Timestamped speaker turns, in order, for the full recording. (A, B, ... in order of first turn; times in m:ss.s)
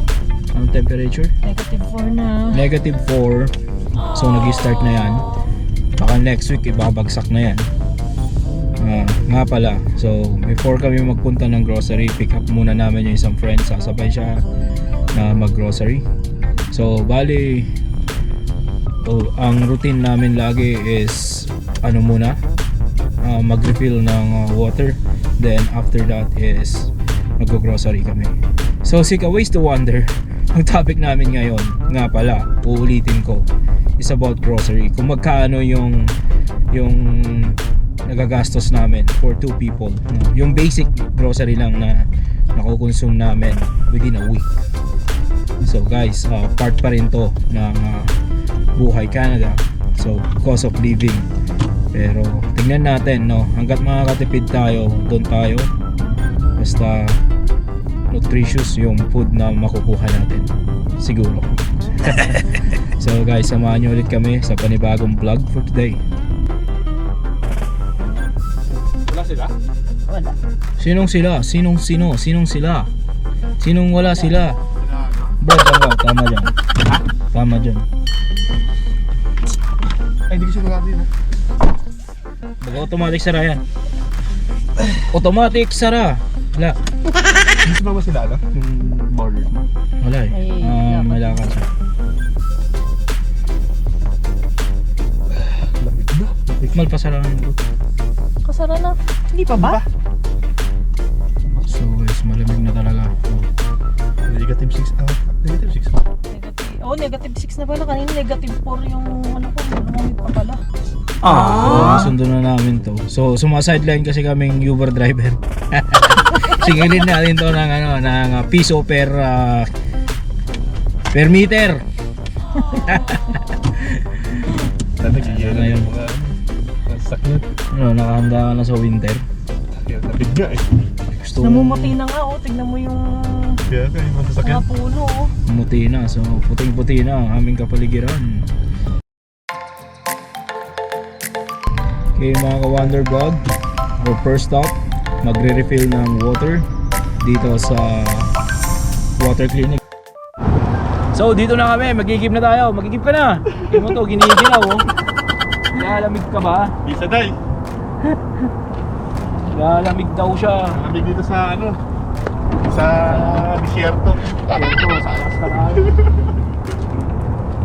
0:00.5-0:01.3 A
0:01.4-0:02.7 B
0:02.5-0:03.6 A
0:04.1-0:05.3 A
0:06.0-0:07.7 A
0:08.8-0:14.4 A
0:15.1-0:16.1 A
0:16.7-0:17.7 A
0:19.0-0:22.4 A
0:23.2-0:36.2 A
0:36.7-0:44.5 A
0:45.6-0:48.2 A
0:48.8-0:51.3 A
0:51.9-0:55.7 A
0:56.6-0:57.2 A
0:58.1-1:06.0 A
1:09.1-1:09.5 C
1:10.1-1:10.4 B
1:10.8-1:12.9 A
1:13.6-1:14.6 A
1:14.8-1:15.3 C
1:15.4-1:16.6 A
1:17.3-1:17.9 A
1:20.3-1:21.1 C
1:22.6-1:23.6 A
1:25.1-1:26.8 A
1:27.6-1:28.4 C
1:28.5-1:31.7 A
1:30.3-1:31.3 B
1:35.6-1:36.8 C
1:36.7-1:37.6 A
1:38.4-1:39.8 B
1:39.5-1:39.8 C
1:41.6-1:43.5 A
1:44.3-1:46.0 C
1:46.3-1:50.6 B
1:51.2-1:59.7 A
2:01.1-2:01.8 A
2:02.6-2:04.5 A
2:05.0-2:06.3 C
2:05.2-2:05.9 A
2:06.9-2:07.5 C
2:07.7-2:09.2 A
2:09.8-2:10.6 C
2:11.1-2:12.0 A
2:11.4-2:13.6 B
2:13.7-2:14.6 C
2:14.4-2:15.3 B
2:15.5-2:18.5 A
2:22.2-2:23.4 A
2:24.0-2:26.7 A
2:27.2-2:28.3 A
2:29.2-2:29.8 A
2:31.1-2:34.9 A
2:35.7-2:36.7 A
2:36.8-2:37.4 C
2:39.5-2:40.8 A
2:40.7-2:41.8 C
2:42.7-2:44.6 C
2:44.5-2:45.9 A